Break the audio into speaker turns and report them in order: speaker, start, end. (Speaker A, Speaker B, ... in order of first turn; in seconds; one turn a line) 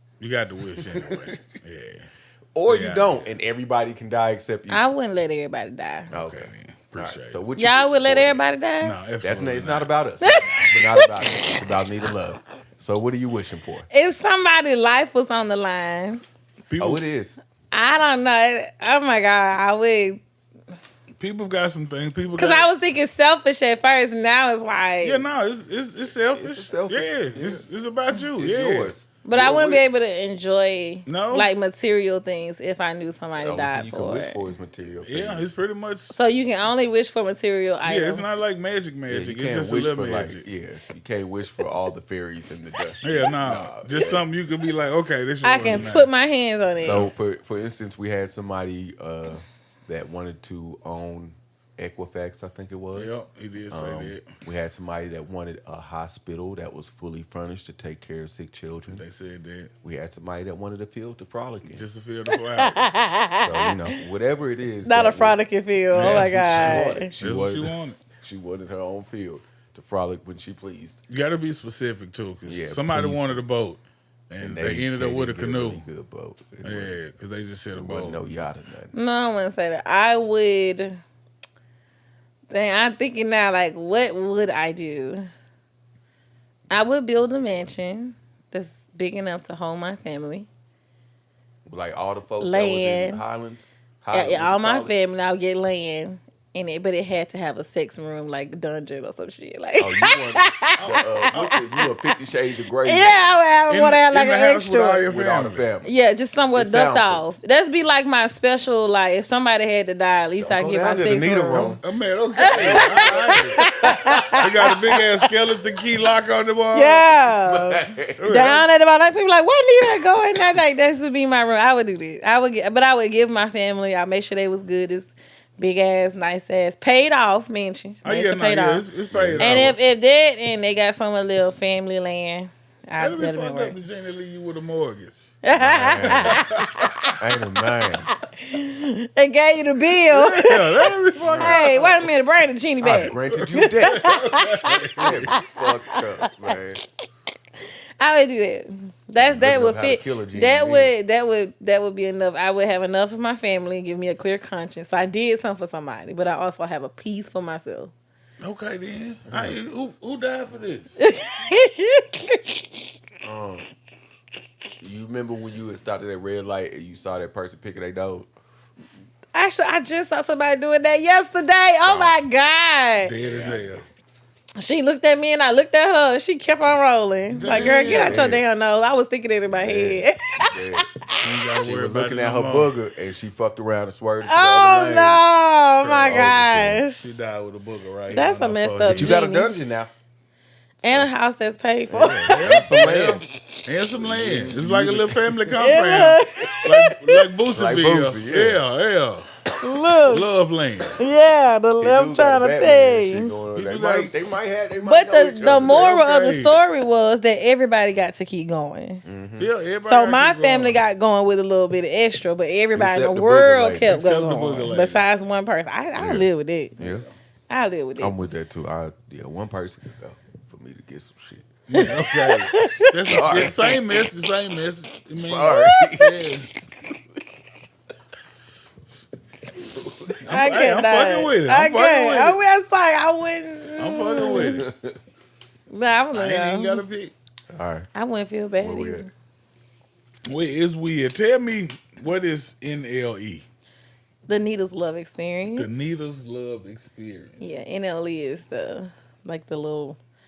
Speaker A: 0.2-2.1
Speaker B: 0.8-1.6
Speaker B: 2.5-4.8
Speaker A: 2.7-3.4
Speaker C: 4.7-6.1
Speaker A: 6.1-7.4
Speaker B: 6.1-8.4
Speaker C: 7.6-9.0
Speaker A: 8.8-9.9
Speaker B: 9.2-13.9
Speaker C: 10.2-11.1
Speaker C: 13.9-16.2
Speaker A: 16.7-17.0
Speaker B: 16.8-17.4
Speaker C: 17.7-20.2
Speaker A: 21.2-22.7
Speaker C: 22.3-25.2
Speaker A: 25.0-28.9
Speaker B: 26.3-27.7
Speaker B: 28.4-29.9
Speaker C: 29.2-34.4
Speaker A: 31.1-31.5
Speaker B: 33.4-35.5
Speaker A: 35.0-36.1
Speaker C: 36.1-38.4
Speaker A: 37.8-40.5
Speaker B: 39.1-44.2
Speaker A: 43.0-46.1
Speaker C: 45.4-47.0
Speaker B: 45.6-45.9
Speaker B: 46.8-53.2
Speaker A: 46.8-47.1
Speaker A: 52.9-54.3
Speaker B: 53.7-59.0
Speaker A: 58.9-59.7
Speaker B: 59.8-61.9
Speaker A: 61.6-63.0
Speaker C: 62.4-63.7
Speaker B: 63.4-65.4
Speaker C: 64.9-67.1
Speaker A: 65.9-68.0
Speaker B: 66.0-71.0
Speaker A: 71.1-75.9
Speaker B: 72.5-73.4
Speaker B: 74.4-77.0
Speaker A: 76.6-78.3
Speaker B: 77.7-78.9
Speaker C: 78.9-81.0
Speaker C: 82.5-85.3
Speaker B: 86.7-87.8
Speaker C: 86.7-90.5
Speaker B: 91.7-94.9
Speaker C: 92.4-93.2
Speaker C: 94.1-102.1
Speaker B: 99.8-103.3
Speaker A: 100.8-101.6
Speaker C: 102.8-105.0
Speaker A: 103.7-105.7
Speaker B: 105.0-105.9
Speaker C: 105.8-111.8
Speaker B: 106.5-107.2
Speaker B: 110.4-111.8
Speaker A: 111.8-117.1
Speaker C: 112.4-115.3
Speaker B: 112.5-114.4
Speaker C: 116.7-128.8
Speaker B: 117.3-118.5
Speaker A: 118.2-118.6
Speaker A: 128.0-129.8
Speaker B: 129.1-129.8
Speaker C: 129.4-133.8
Speaker A: 133.0-135.3
Speaker C: 135.4-137.2
Speaker B: 135.6-136.4
Speaker A: 136.0-136.7
Speaker B: 137.2-138.1
Speaker C: 138.0-146.0
Speaker A: 140.1-142.1
Speaker B: 141.3-141.6
Speaker B: 142.8-144.1
Speaker A: 142.9-145.3
Speaker B: 145.0-146.8
Speaker C: 148.0-157.9
Speaker B: 149.2-150.9
Speaker A: 158.4-160.9
Speaker B: 159.3-159.6
Speaker C: 161.0-162.6
Speaker B: 163.2-163.7
Speaker B: 164.8-168.3
Speaker C: 169.3-173.2
Speaker B: 171.8-172.2
Speaker A: 173.0-173.8
Speaker B: 173.2-173.8
Speaker C: 174.6-181.2
Speaker A: 177.3-178.3
Speaker B: 177.4-178.4
Speaker B: 179.5-180.9
Speaker A: 181.2-182.7
Speaker B: 181.6-185.2
Speaker C: 184.2-187.1
Speaker A: 185.8-189.2
Speaker C: 188.1-189.5
Speaker B: 188.9-189.9
Speaker C: 190.8-192.7
Speaker B: 190.8-191.1
Speaker B: 191.9-193.3
Speaker A: 192.2-199.3
Speaker B: 193.9-195.6
Speaker C: 195.6-197.3
Speaker B: 197.5-198.6
Speaker C: 199.6-200.3
Speaker A: 200.1-201.0
Speaker C: 201.0-203.3
Speaker B: 201.8-206.0
Speaker A: 203.5-204.2
Speaker C: 204.8-209.0
Speaker A: 205.7-206.6
Speaker B: 209.1-209.5
Speaker A: 209.4-210.8
Speaker C: 209.8-216.8
Speaker B: 212.7-214.0
Speaker A: 213.8-215.1
Speaker B: 216.0-217.1
Speaker A: 216.8-217.1
Speaker C: 217.5-218.2
Speaker B: 218.0-221.8
Speaker A: 221.7-226.5
Speaker C: 221.7-223.3
Speaker B: 223.1-223.8
Speaker B: 225.2-226.7
Speaker B: 229.8-230.2
Speaker A: 230.2-232.4
Speaker C: 230.3-234.6
Speaker A: 233.8-234.7
Speaker B: 234.3-235.0
Speaker C: 235.7-236.8
Speaker A: 236.1-237.1
Speaker B: 237.5-237.9
Speaker C: 237.9-239.1
Speaker B: 238.6-239.1
Speaker A: 240.3-243.5
Speaker C: 244.3-245.8
Speaker A: 245.5-247.6
Speaker C: 247.4-250.0